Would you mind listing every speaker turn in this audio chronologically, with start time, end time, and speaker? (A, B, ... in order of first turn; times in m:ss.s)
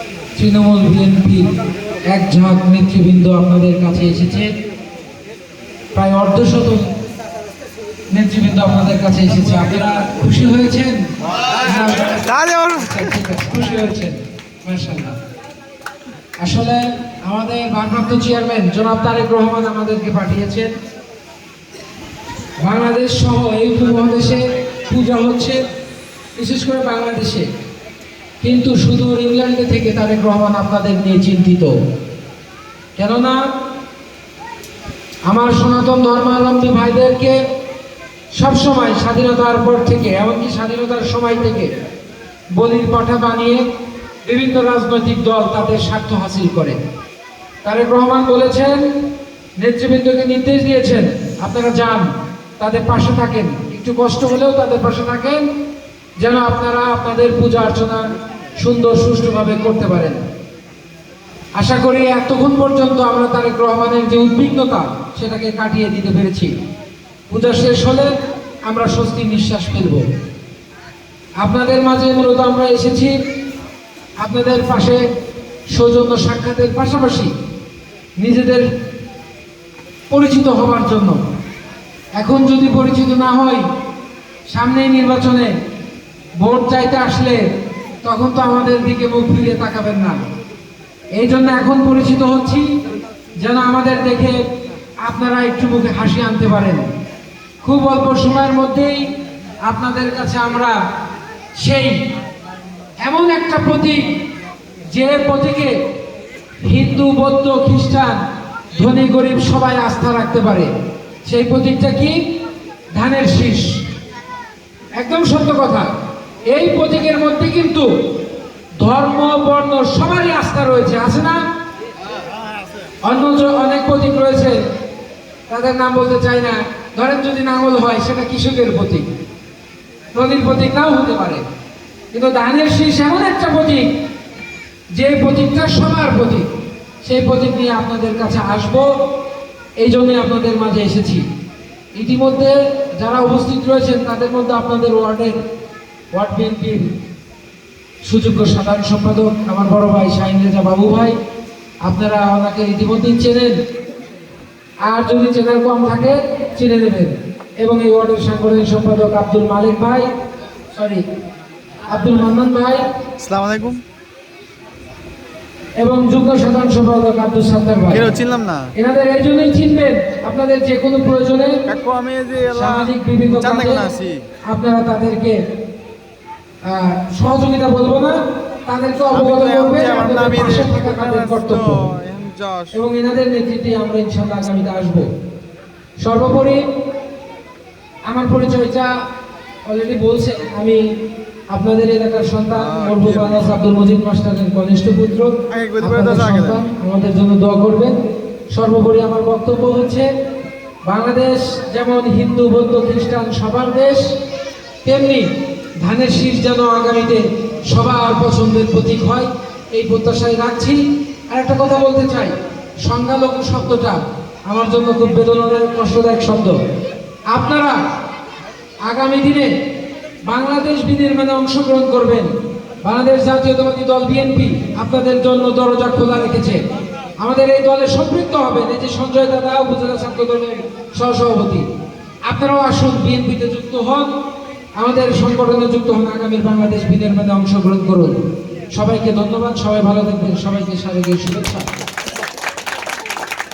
0:00.4-0:01.5 A
0:02.1-0:04.5 A
0:06.0-0:06.9 A
0:08.1-0:15.2 A
0:16.4-0:20.7 A
0:22.6-0:25.6 A
0:26.4-0:27.5 A
0:28.4-0:31.7 A
0:33.0-0:33.4 A
0:35.3-0:37.4 A
0:38.4-0:41.8 A
0:42.6-0:43.6 A
0:44.3-0:46.8 A
0:47.6-0:48.9 A
0:49.6-0:55.5 A
0:56.2-1:00.2 A
1:01.6-1:06.5 A
1:07.3-1:08.1 A
1:08.7-1:10.0 A
1:11.4-1:13.2 A
1:14.2-1:15.0 A
1:15.7-1:17.3 A
1:18.2-1:18.7 A
1:20.1-1:21.2 A
1:22.2-1:23.6 A
1:24.5-1:25.5 A
1:26.4-1:27.4 A
1:28.0-1:30.2 A
1:31.2-1:32.8 A
1:33.4-1:34.4 A
1:35.0-1:36.9 A
1:37.6-1:39.1 A
1:39.7-1:40.8 A
1:41.6-1:42.0 A
1:43.0-1:44.1 A
1:44.9-1:45.8 A
1:46.6-1:48.2 A
1:48.7-1:50.7 A
1:51.3-1:52.2 A
1:52.9-1:53.8 A
1:55.0-1:55.9 A
1:56.5-1:57.9 A
1:58.8-2:01.4 A
2:03.0-2:04.6 A
2:05.5-2:09.1 A
2:10.1-2:11.4 A
2:12.1-2:13.9 A
2:14.9-2:16.5 A
2:17.0-2:18.9 A
2:19.8-2:21.3 A
2:22.0-2:25.4 A
2:26.1-2:26.9 A
2:28.0-2:31.2 A
2:31.8-2:33.6 A
2:34.8-2:40.1 A
2:40.7-2:41.0 A
2:41.9-2:42.9 A
2:43.2-2:43.8 B
2:45.8-2:48.1 A
2:47.9-2:48.7 B
2:48.8-2:51.6 A
2:51.7-2:54.2 B
2:52.5-2:53.9 A
2:54.5-2:55.4 A
2:56.6-3:01.8 A
2:59.1-3:02.7 B
3:02.7-3:05.1 A
3:06.0-3:06.6 A
3:08.1-3:08.9 A
3:09.7-3:10.8 A
3:11.5-3:18.0 A
3:12.6-3:13.4 B
3:15.5-3:16.6 B
3:18.5-3:20.1 A
3:20.9-3:24.0 A
3:24.8-3:25.3 A
3:25.8-3:36.6 A
3:37.3-3:37.8 A
3:38.8-3:39.5 A
3:40.3-3:46.6 A
3:47.2-3:51.7 A
3:52.3-3:54.1 A
3:54.8-3:58.2 A
3:58.7-4:01.7 A